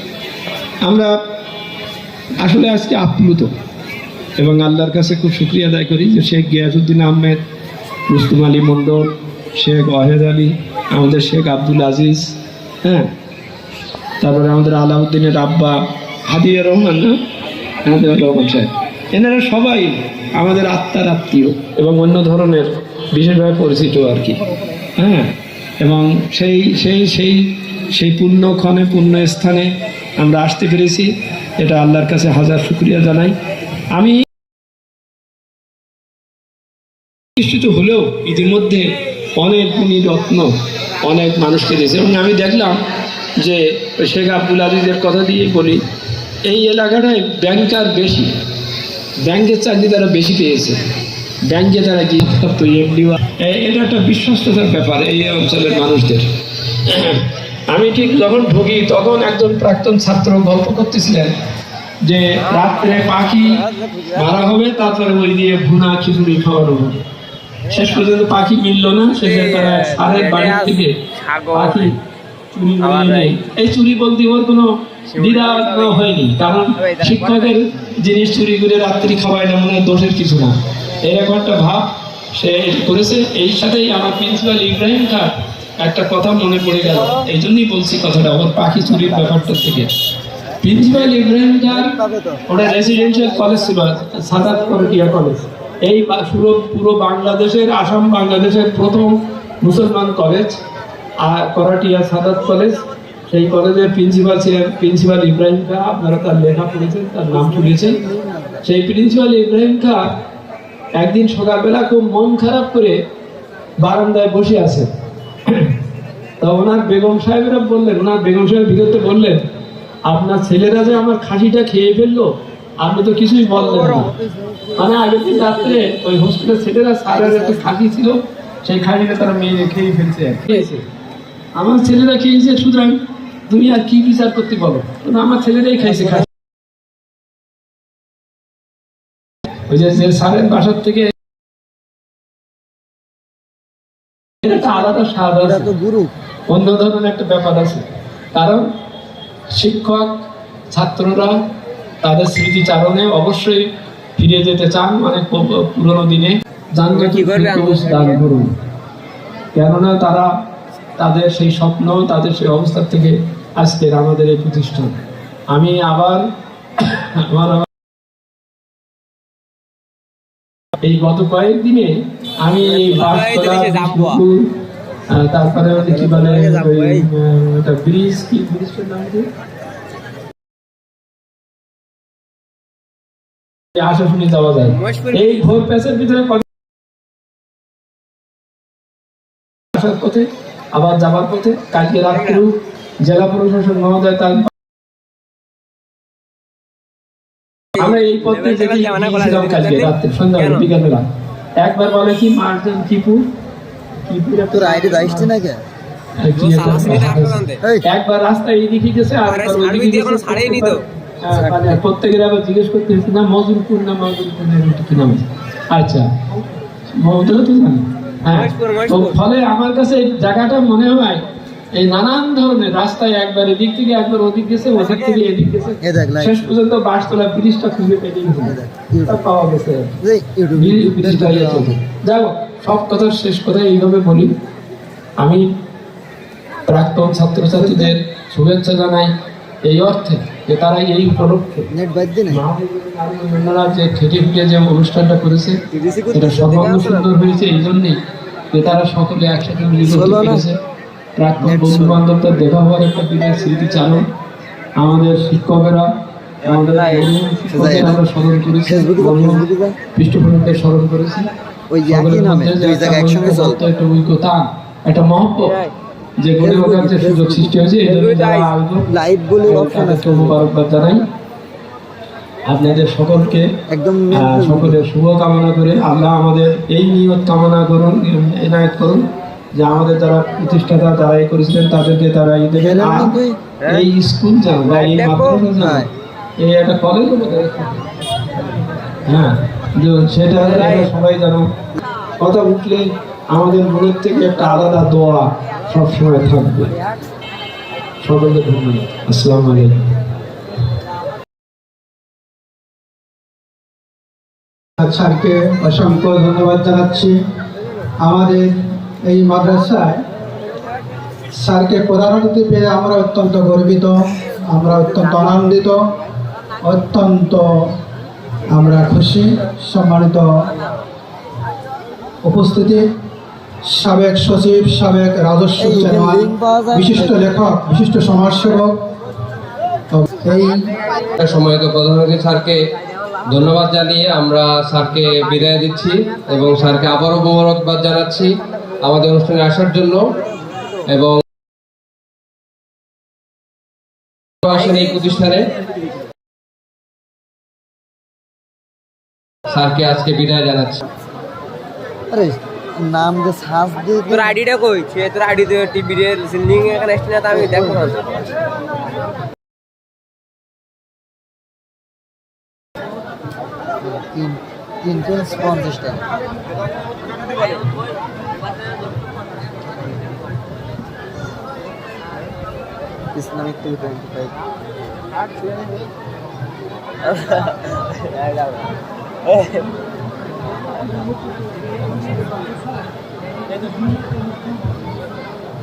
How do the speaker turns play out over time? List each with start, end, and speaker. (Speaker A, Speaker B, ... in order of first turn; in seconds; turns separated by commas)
Speaker A: 0.8-1.1, Speaker A: 2.4-3.5, Speaker A: 4.4-7.4, Speaker A: 8.1-13.1, Speaker A: 14.2-17.2, Speaker A: 17.9-24.4, Speaker A: 25.0-33.4, Speaker A: 34.0-34.2, Speaker A: 37.4-40.5, Speaker A: 41.0-42.8, Speaker A: 43.4-45.8, Speaker A: 46.5-48.3, Speaker A: 49.2-50.8, Speaker A: 51.5-61.4, Speaker A: 62.0-67.0, Speaker B: 63.4-64.4, Speaker A: 67.7-71.0, Speaker C: 69.2-71.9, Speaker A: 71.5-72.0, Speaker A: 72.5-89.9, Speaker C: 72.8-73.4, Speaker C: 75.1-76.0, Speaker C: 76.8-77.6, Speaker A: 90.6-91.9, Speaker B: 90.9-93.8, Speaker A: 92.5-100.6, Speaker A: 101.2-108.0, Speaker B: 107.3-108.6, Speaker A: 108.6-110.0, Speaker A: 111.0-113.0, Speaker A: 113.8-114.9, Speaker A: 115.5-115.8, Speaker A: 116.4-119.4, Speaker A: 120.1-124.1, Speaker B: 123.5-125.9, Speaker A: 124.8-130.8, Speaker B: 127.1-127.7, Speaker A: 131.6-136.3, Speaker A: 139.7-141.1, Speaker A: 144.4-145.7, Speaker B: 145.4-146.1, Speaker A: 146.5-148.7, Speaker A: 149.5-151.4, Speaker A: 152.0-158.5, Speaker C: 156.9-158.2, Speaker A: 159.5-160.3, Speaker A: 161.0-165.0, Speaker A: 165.5-166.2, Speaker A: 166.8-167.7, Speaker A: 170.8-174.5, Speaker C: 172.6-174.2, Speaker A: 175.1-179.3, Speaker C: 175.8-177.0, Speaker A: 183.8-186.4, Speaker C: 184.8-185.4, Speaker A: 189.7-194.5, Speaker C: 197.8-200.7, Speaker A: 197.8-201.0, Speaker A: 201.6-203.3, Speaker A: 204.1-205.3, Speaker B: 204.5-205.6, Speaker A: 206.2-216.2, Speaker C: 206.3-207.6, Speaker C: 209.2-210.8, Speaker B: 211.3-211.8, Speaker A: 216.9-221.2, Speaker C: 218.3-219.2, Speaker A: 221.7-230.0, Speaker B: 225.8-226.5, Speaker B: 228.4-229.2, Speaker B: 230.0-231.7, Speaker A: 230.5-234.3, Speaker A: 235.2-235.5, Speaker A: 236.7-239.1, Speaker B: 237.5-237.9, Speaker A: 239.7-241.7, Speaker B: 241.7-242.4, Speaker A: 242.3-245.6, Speaker C: 245.9-246.9, Speaker A: 246.1-248.0, Speaker A: 248.5-250.6, Speaker B: 249.8-250.4, Speaker A: 251.2-254.1, Speaker B: 251.4-252.0, Speaker A: 254.8-255.9, Speaker A: 256.4-261.3, Speaker C: 256.5-257.1, Speaker B: 257.5-258.0, Speaker B: 258.6-259.8, Speaker B: 261.7-263.6, Speaker A: 261.9-265.6, Speaker A: 266.2-268.9, Speaker B: 266.4-267.5, Speaker C: 267.8-268.5, Speaker B: 268.9-270.4, Speaker A: 269.4-271.0, Speaker A: 272.5-273.5, Speaker B: 273.7-274.8, Speaker A: 274.1-285.9, Speaker B: 282.5-283.5, Speaker C: 284.7-285.4, Speaker B: 285.6-285.9, Speaker A: 286.4-288.5, Speaker A: 289.1-291.5, Speaker A: 292.2-296.7, Speaker A: 298.0-299.8, Speaker D: 304.8-307.1, Speaker D: 308.0-308.5, Speaker D: 309.1-310.0, Speaker D: 311.4-315.8, Speaker D: 316.6-317.4, Speaker D: 318.5-320.3, Speaker D: 322.2-322.9, Speaker D: 323.7-328.7, Speaker B: 325.6-327.3, Speaker D: 329.9-330.6, Speaker E: 331.2-332.6, Speaker E: 333.3-338.3, Speaker E: 338.8-340.0, Speaker E: 340.9-341.2, Speaker E: 344.4-345.5, Speaker E: 349.5-350.8, Speaker B: 352.1-354.4, Speaker C: 354.1-358.2, Speaker B: 357.3-357.8, Speaker B: 363.8-366.0, Speaker B: 369.7-370.0, Speaker B: 373.1-374.3